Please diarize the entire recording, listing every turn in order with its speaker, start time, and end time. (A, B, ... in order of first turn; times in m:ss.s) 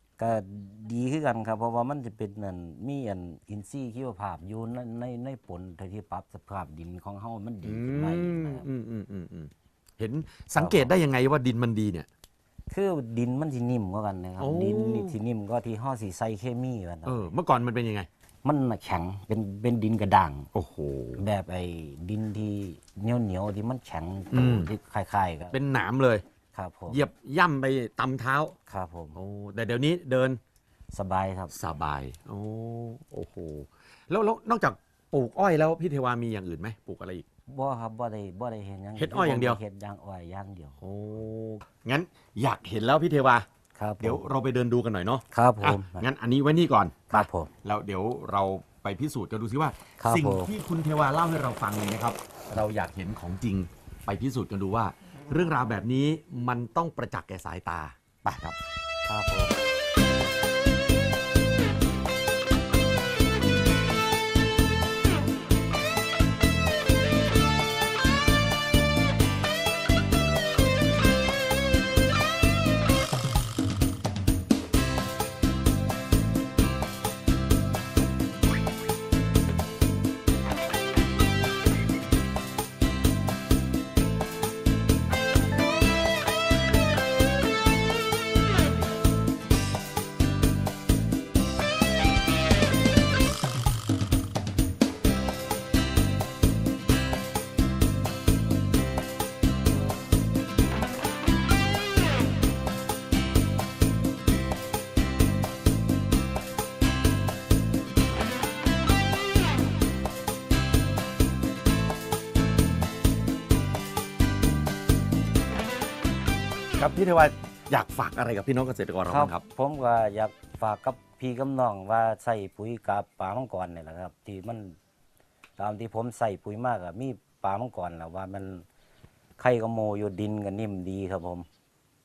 0:00.2-0:08.7 A
0:07.6-0:12.1 B
0:10.6-0:11.0 A
0:12.7-0:17.3 A
0:14.4-0:15.2 B
0:17.0-0:18.1 B
0:18.4-0:20.5 A
0:20.5-0:21.2 B
0:21.2-0:25.6 A
0:24.3-0:24.7 B
0:25.5-0:26.2 B
0:26.5-0:27.0 A
0:26.9-0:28.5 B
0:28.6-0:29.2 A
0:29.1-0:30.4 B
0:30.9-0:31.5 A
0:31.5-0:37.2 B
0:37.5-0:40.8 A
0:39.0-0:39.6 B
0:40.8-0:43.4 B
0:43.8-0:44.2 A
0:44.0-0:58.6 B
0:45.3-0:46.1 A
0:47.1-0:47.5 A
0:50.0-0:50.5 A
0:59.1-0:59.6 A
1:56.8-1:59.4 B
1:59.0-2:04.8 A
2:05.6-2:08.6 A
2:09.4-2:11.5 A